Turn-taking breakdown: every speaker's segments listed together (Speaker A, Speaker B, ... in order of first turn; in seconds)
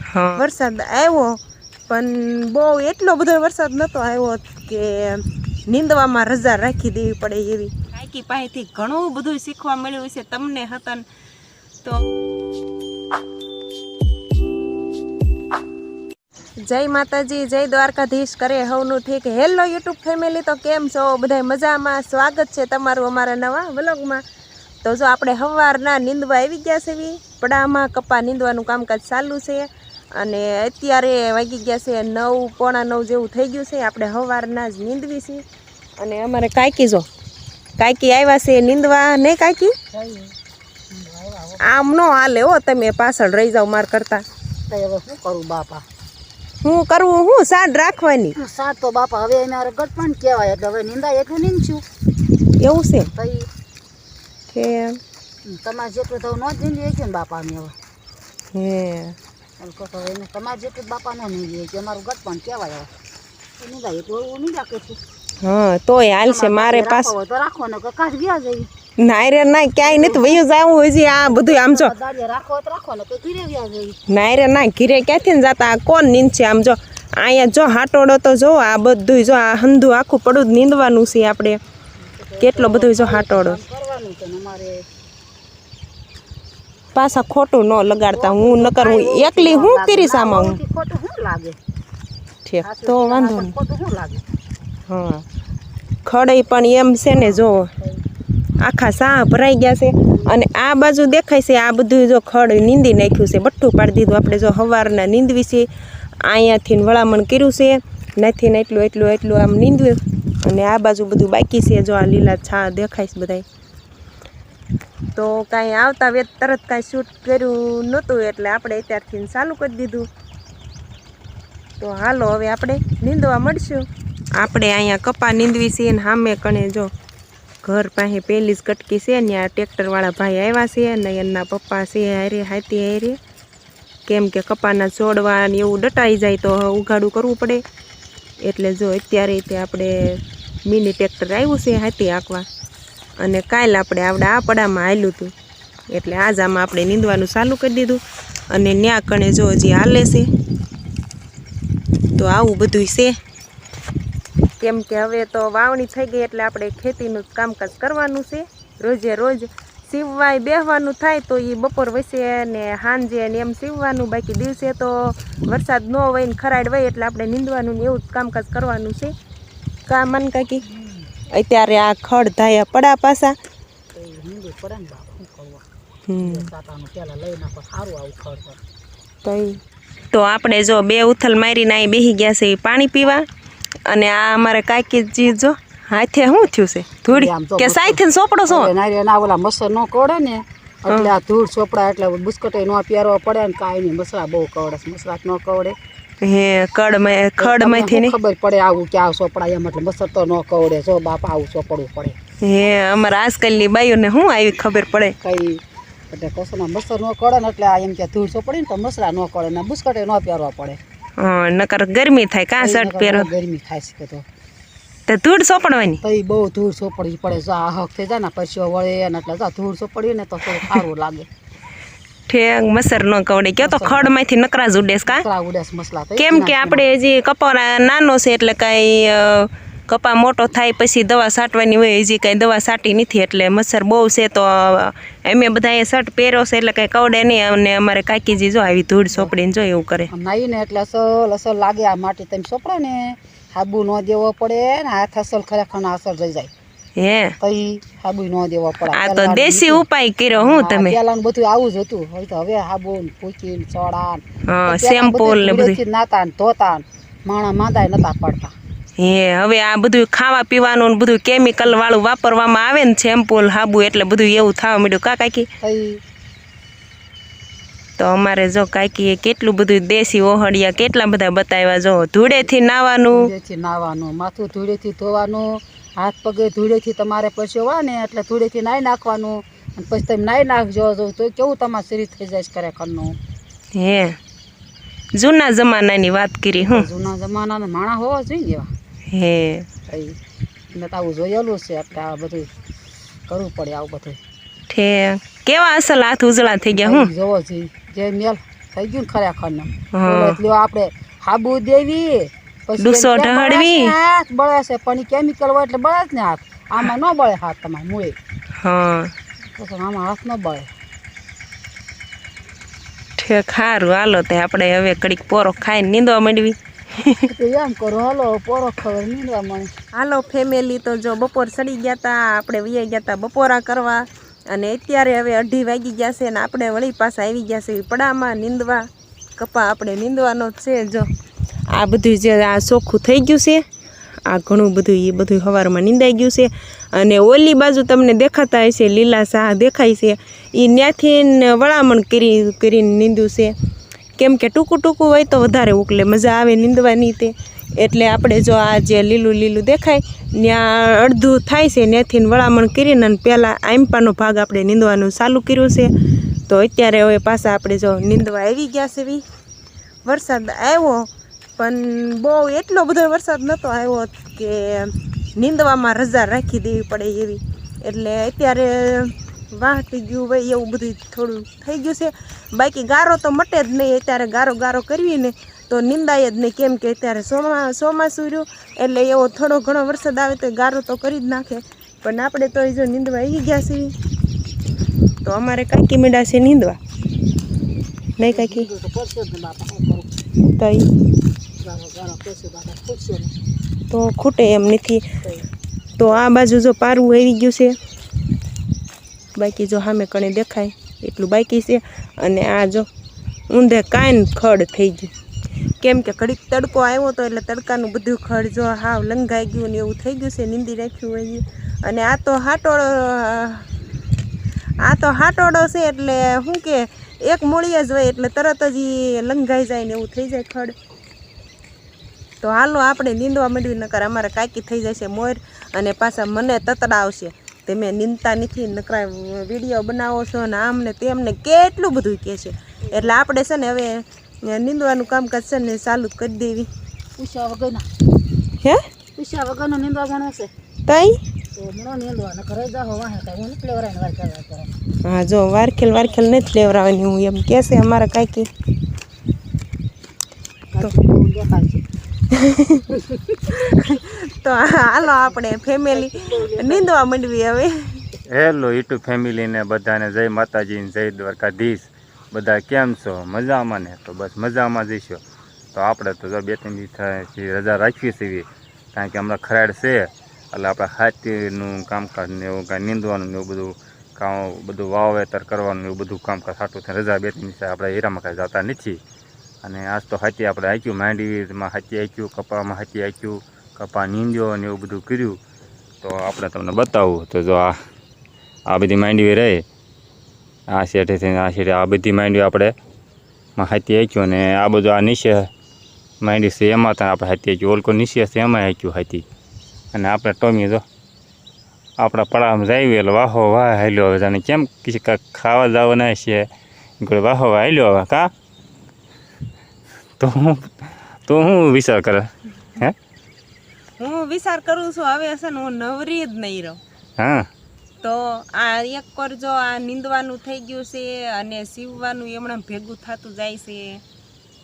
Speaker A: 0.2-1.3, 1.9-11.0, 16.6-24.2, 24.8-35.4, 36.0-37.1, 37.8-39.7, 41.6-44.2, 46.6-48.3, 52.6-53.1, 54.5-55.0, 58.5-59.1, 65.4-67.1, 69.0-71.9, 74.1-81.6, 82.4-83.6, 86.9-90.6, 92.5-93.5, 94.9-95.2, 96.0-97.7, 98.6-105.7, 106.2-113.4, 115.1-120.1, 121.8-126.9, 127.6-133.2, 134.1-137.6, 138.4-142.4, 143.2-145.3, 145.9-148.0, 148.5-150.3, 152.2-153.2, 154.6-169.1, 169.9-170.6, 171.3-173.4, 176.1-176.5, 179.2-179.6, 180.1-183.2, 183.9-188.7, 196.2-198.1, 202.4-205.1, 211.2-213.3, 215.1-216.0, 222.3-225.2, 226.2-240.1, 247.0-247.3, 248.9-251.0, 254.5-255.8, 259.0-265.5, 268.0-273.3, 283.7-284.1, 285.1-286.9, 289.1-289.6, 294.7-297.1, 299.9-300.4, 302.8-303.9, 308.6-309.1, 313.2-317.2, 319.9-328.8, 329.4-331.1, 331.7-333.6, 334.3-343.5, 344.2-355.9, 356.5-359.2, 360.0-361.1, 361.6-383.9, 385.2-386.8, 388.2-388.6, 390.6-390.9, 393.9-395.0, 396.0-397.7, 399.3-402.9, 403.5-405.1, 405.8-413.6, 414.8-420.7, 422.4-436.7, 440.9-441.2, 445.0-448.5, 452.4-452.8, 453.6-458.0, 514.0-516.8, 518.0-524.0
Speaker B: 39.9-40.3, 40.9-41.6, 44.7-45.8, 48.4-51.8, 53.1-53.5, 55.5-57.7, 59.6-62.9, 63.6-65.0, 66.2-68.7, 69.8-70.4, 71.0-74.0, 82.0-84.8, 88.1-91.6, 92.6-94.2, 170.7-171.1, 173.9-175.6, 176.2-178.6, 187.1-195.7, 197.4-202.1, 205.2-205.6, 206.1-210.8, 212.6-214.2, 216.0-221.3, 223.6-224.1, 225.0-226.8, 240.1-246.5, 247.4-258.5, 265.6-266.0, 273.1-283.1, 286.6-288.7, 289.9-290.1, 290.7-292.5, 293.3-294.2, 296.7-308.1, 309.6-310.7, 317.3-319.7, 388.2-390.1, 391.6-393.3, 437.2-437.8, 439.1-440.5, 441.6-444.7, 450.7-451.8, 452.9-453.6, 455.9-456.9
Speaker C: 458.3-465.2, 465.7-479.0, 479.6-485.4, 486.0-487.7, 488.7-489.6, 490.7-492.7, 493.6-495.5, 496.2-499.2, 499.9-500.8, 502.0-506.5, 507.0-508.3, 510.2-513.0, 517.2-517.5